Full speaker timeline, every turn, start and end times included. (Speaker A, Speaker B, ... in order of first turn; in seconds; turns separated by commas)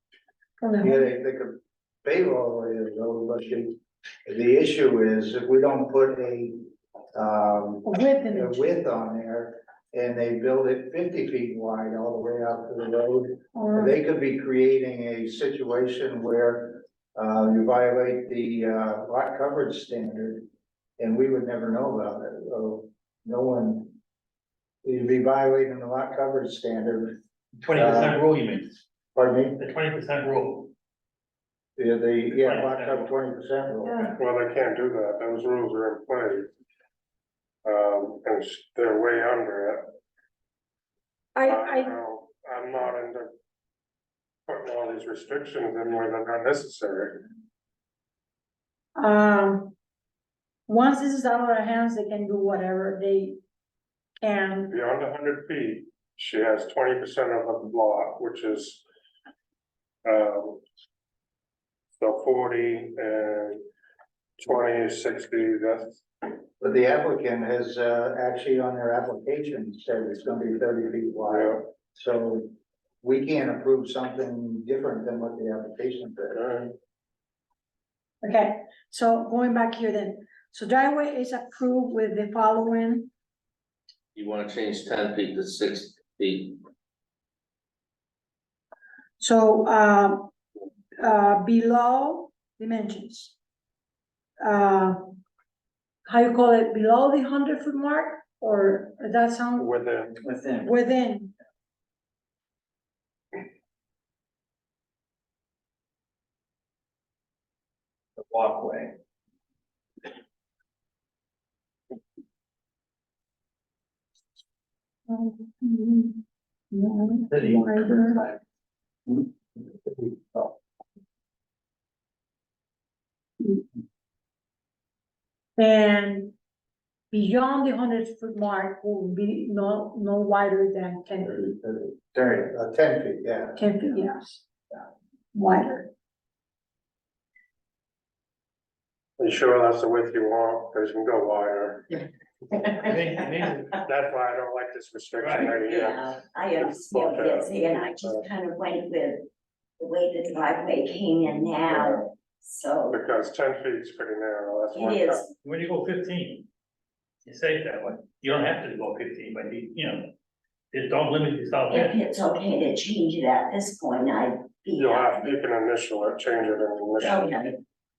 Speaker A: 0.6-1.0, Speaker B: 0.8-6.5, Speaker B: 7.1-20.5, Speaker A: 7.8-8.7, Speaker A: 13.5-13.9, Speaker B: 21.0-24.0, Speaker B: 24.8-27.2, Speaker C: 27.6-28.8, Speaker B: 27.7-28.2, Speaker B: 29.1-29.6, Speaker C: 29.6-30.7, Speaker B: 31.8-34.2, Speaker C: 32.3-33.1, Speaker A: 33.8-34.1, Speaker D: 34.1-36.5, Speaker D: 37.6-39.9, Speaker A: 41.3-41.9, Speaker D: 41.4-43.3, Speaker D: 44.5-47.3, Speaker A: 48.9-49.7, Speaker A: 50.7-53.4, Speaker A: 54.2-54.7, Speaker D: 54.7-58.8, Speaker D: 60.0-60.6, Speaker D: 62.0-63.6, Speaker D: 64.4-66.0, Speaker B: 66.6-72.5, Speaker D: 71.3-71.7, Speaker B: 73.0-76.4, Speaker D: 76.3-76.7, Speaker A: 78.2-83.1, Speaker E: 84.1-86.6, Speaker A: 89.2-90.3, Speaker A: 91.0-93.4, Speaker A: 94.4-95.2, Speaker A: 96.0-99.8, Speaker D: 99.5-100.2, Speaker F: 100.2-100.7, Speaker A: 100.6-101.3, Speaker F: 108.2-109.0, Speaker A: 115.1-118.2, Speaker F: 117.3-118.2, Speaker A: 125.6-126.3, Speaker A: 127.1-131.4, Speaker B: 131.2-133.8, Speaker A: 133.6-134.4, Speaker A: 135.3-135.9, Speaker D: 139.2-141.9, Speaker G: 141.9-143.7, Speaker C: 142.8-143.8, Speaker D: 143.8-148.3, Speaker C: 145.2-145.5, Speaker G: 145.6-149.3, Speaker G: 149.8-153.0, Speaker D: 152.9-155.3, Speaker G: 154.7-155.3, Speaker C: 155.4-156.5, Speaker C: 157.2-160.1, Speaker C: 160.7-162.0, Speaker G: 161.7-165.4, Speaker D: 164.8-167.3, Speaker G: 167.0-167.6